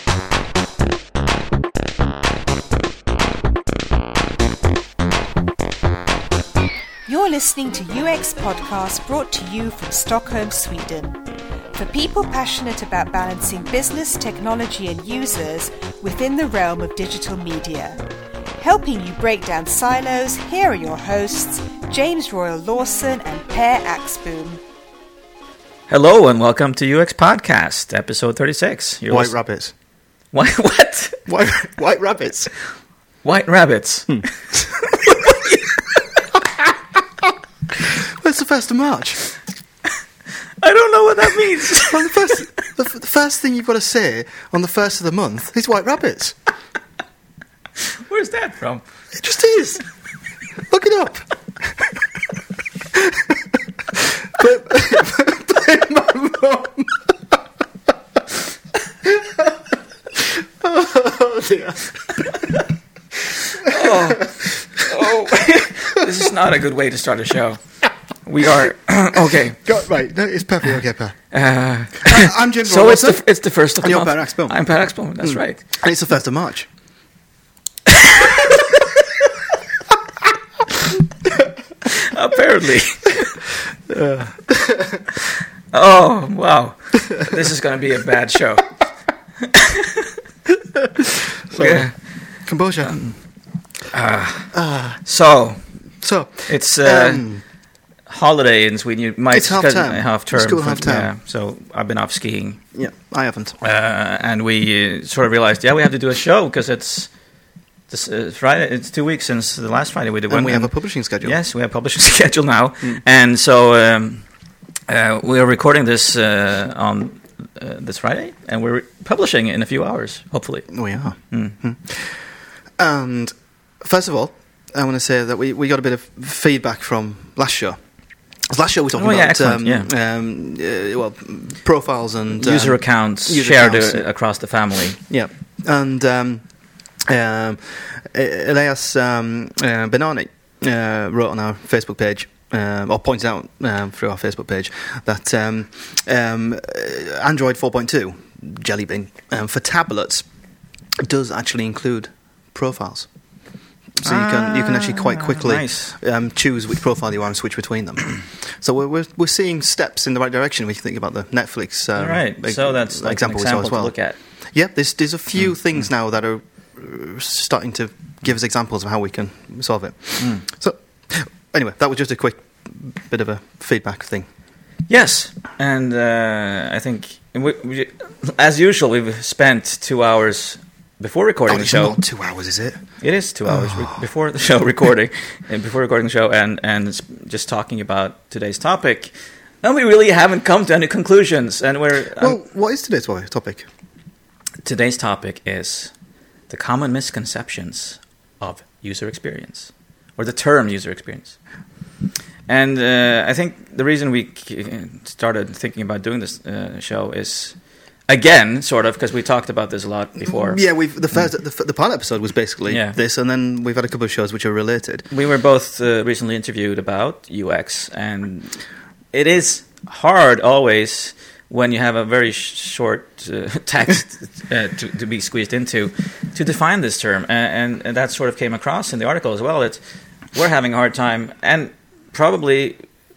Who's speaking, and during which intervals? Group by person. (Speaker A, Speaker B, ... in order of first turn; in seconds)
Speaker A: 7.0-11.2, 11.7-18.0, 18.6-24.6
Speaker B: 25.9-29.4, 30.3-31.3, 33.2-35.8, 40.6-42.4, 48.0-48.9, 63.6-69.6, 71.3-75.6, 81.8-83.4, 85.7-88.8, 89.5-89.8, 91.5-92.4, 92.9-93.2, 93.9-95.7, 96.5-97.3, 98.0-102.6, 103.6-107.1, 107.9-114.3, 114.9-120.7, 121.3-121.6, 128.9-129.9, 132.3-135.0, 154.0-155.9, 161.9-164.2, 170.2-170.4, 174.9-182.0, 183.0-192.3, 194.6-195.9, 196.5-201.4, 202.5-210.6, 212.7-213.0, 215.1-229.8, 230.3-232.9
Speaker C: 29.1-29.7, 31.3-32.5, 37.8-39.2, 41.7-46.4, 49.1-49.8, 50.7-51.9, 52.9-53.4, 53.9-57.1, 59.1-59.5, 60.2-62.6, 63.6-64.1, 69.1-71.2, 72.0-74.6, 75.2-76.7, 83.9-85.0, 91.5-93.1, 94.5-95.0, 96.0-97.4, 99.3-101.1, 102.7-103.6, 110.3-111.4, 120.7-127.8, 128.4-134.1, 135.0-150.2, 151.0-153.1, 154.0-174.3, 181.5-184.1, 192.2-193.7, 210.2-215.1